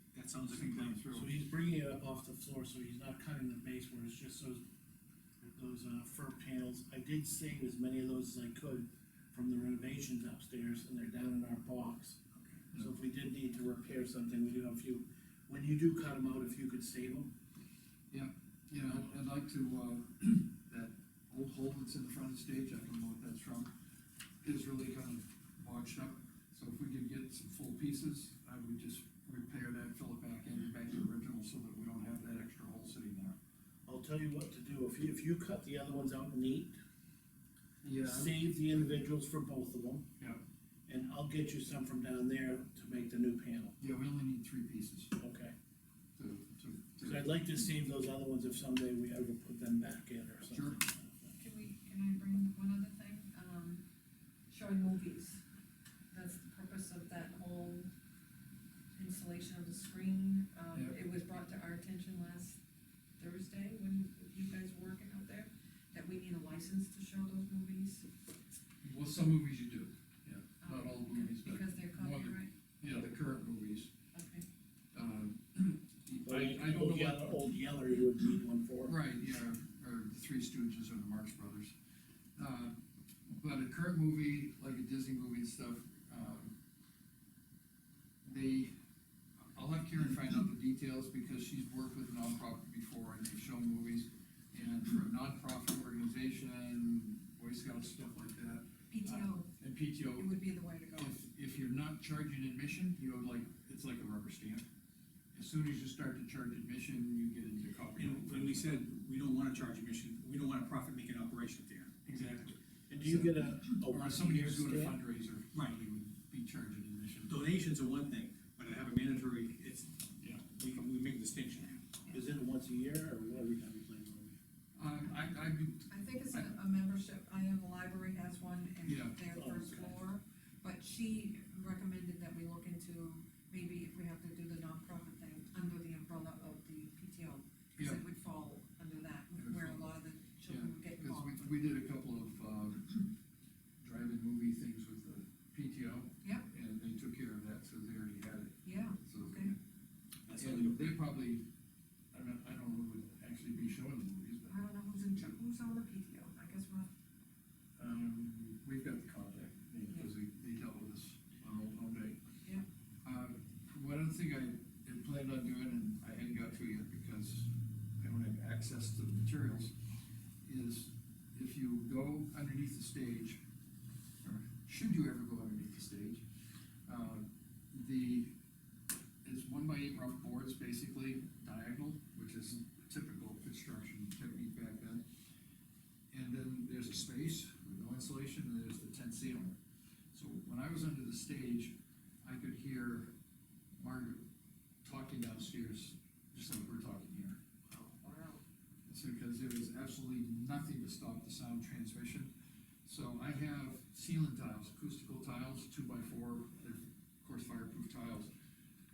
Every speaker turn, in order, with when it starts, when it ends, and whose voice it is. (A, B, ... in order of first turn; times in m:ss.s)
0:00.1-0:01.0 A
0:00.5-0:01.4 B
0:01.1-0:04.6 C
0:05.4-0:12.2 C
0:12.8-0:17.3 C
0:18.1-0:23.7 B
0:24.4-0:33.4 B
0:33.9-0:36.8 C
0:37.8-0:38.5 B
0:38.0-0:40.0 C
0:40.9-0:43.8 C
0:43.8-0:45.2 B
0:45.2-0:45.5 C
0:46.2-0:47.7 B
0:47.0-0:51.3 C
0:50.5-0:50.8 B
0:51.4-0:53.8 D
0:54.5-0:55.4 D
0:56.1-0:57.9 D
0:59.0-1:02.6 D
1:03.2-1:08.1 D
1:08.8-1:13.9 B
1:10.6-1:12.5 D
1:14.1-1:14.5 D
1:14.9-1:17.6 B
1:16.2-1:19.0 C
1:18.8-1:21.7 B
1:22.4-1:26.5 B
1:28.2-1:28.7 B
1:29.5-1:40.3 B
1:38.9-1:39.5 D
1:40.2-1:41.2 D
1:41.0-1:44.6 B
1:45.3-1:48.8 B
1:48.0-1:52.1 A
1:52.1-1:57.4 B
1:52.9-1:55.0 C
1:55.5-1:55.8 A
1:57.3-2:02.0 A
2:02.1-2:04.4 C
2:04.8-2:06.6 B
2:05.9-2:21.4 D
2:08.8-2:09.2 B
2:09.4-2:09.9 C
2:19.4-2:19.9 B
2:20.5-2:23.1 B
2:23.8-2:29.6 B
2:28.6-2:29.5 D
2:30.3-2:30.9 A
2:30.3-2:31.4 B
2:32.1-2:34.6 B
2:34.5-2:36.9 D
2:37.8-2:42.2 B
2:43.0-2:49.7 B
2:50.4-2:53.4 B
2:54.2-2:56.2 B
2:56.9-2:58.3 B
2:59.2-3:05.0 B
3:06.1-3:09.6 B
3:10.1-3:13.1 B
3:13.8-3:14.2 B
3:14.8-3:17.4 B
3:17.7-3:18.4 D
3:18.9-3:22.3 B
3:22.8-3:28.3 B